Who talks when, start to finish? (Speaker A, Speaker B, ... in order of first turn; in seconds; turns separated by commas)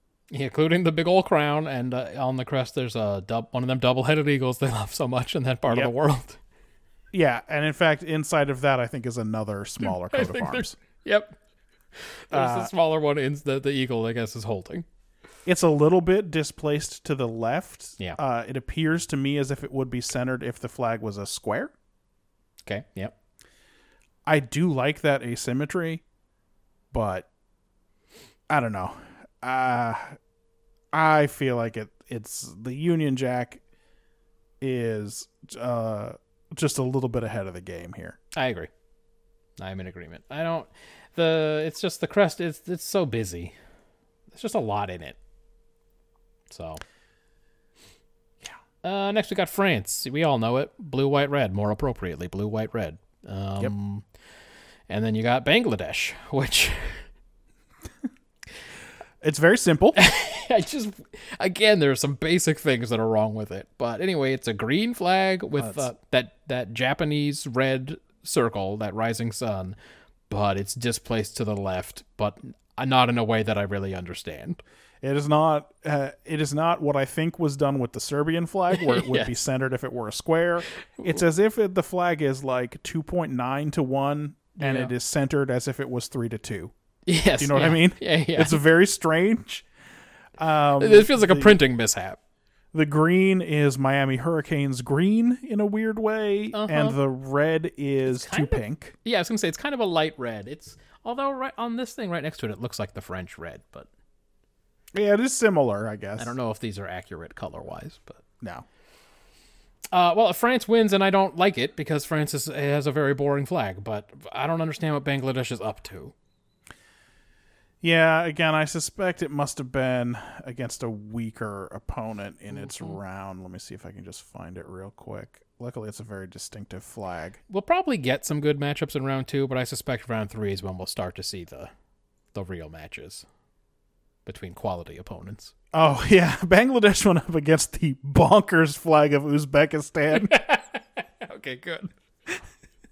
Speaker A: 0.3-6.4, Speaker B: 7.1-10.8, Speaker A: 9.8-11.3, Speaker A: 11.9-14.8, Speaker B: 12.3-12.7, Speaker B: 15.4-21.7, Speaker A: 22.6-23.1, Speaker B: 24.2-26.0, Speaker B: 26.9-27.3, Speaker B: 28.5-30.2, Speaker B: 30.9-33.6, Speaker B: 34.6-38.2, Speaker A: 38.3-38.7, Speaker A: 39.6-43.5, Speaker A: 44.3-45.2, Speaker A: 46.5-46.8, Speaker A: 48.8-54.0, Speaker A: 54.9-57.0, Speaker B: 59.2-60.0, Speaker A: 59.9-69.8, Speaker B: 65.6-65.9, Speaker A: 70.3-74.6, Speaker B: 75.0-86.7, Speaker A: 78.7-79.3, Speaker A: 84.6-84.9, Speaker A: 87.1-88.6, Speaker B: 87.4-89.7, Speaker B: 90.4-91.6, Speaker A: 90.8-92.2, Speaker B: 92.7-98.9, Speaker A: 96.5-97.0, Speaker A: 98.1-103.9, Speaker B: 104.9-106.3, Speaker A: 106.2-108.2, Speaker A: 109.9-116.1, Speaker B: 117.8-127.4, Speaker A: 122.5-123.0, Speaker A: 127.5-131.7, Speaker A: 132.3-133.2, Speaker A: 134.2-135.5, Speaker B: 135.7-140.3, Speaker A: 140.1-141.9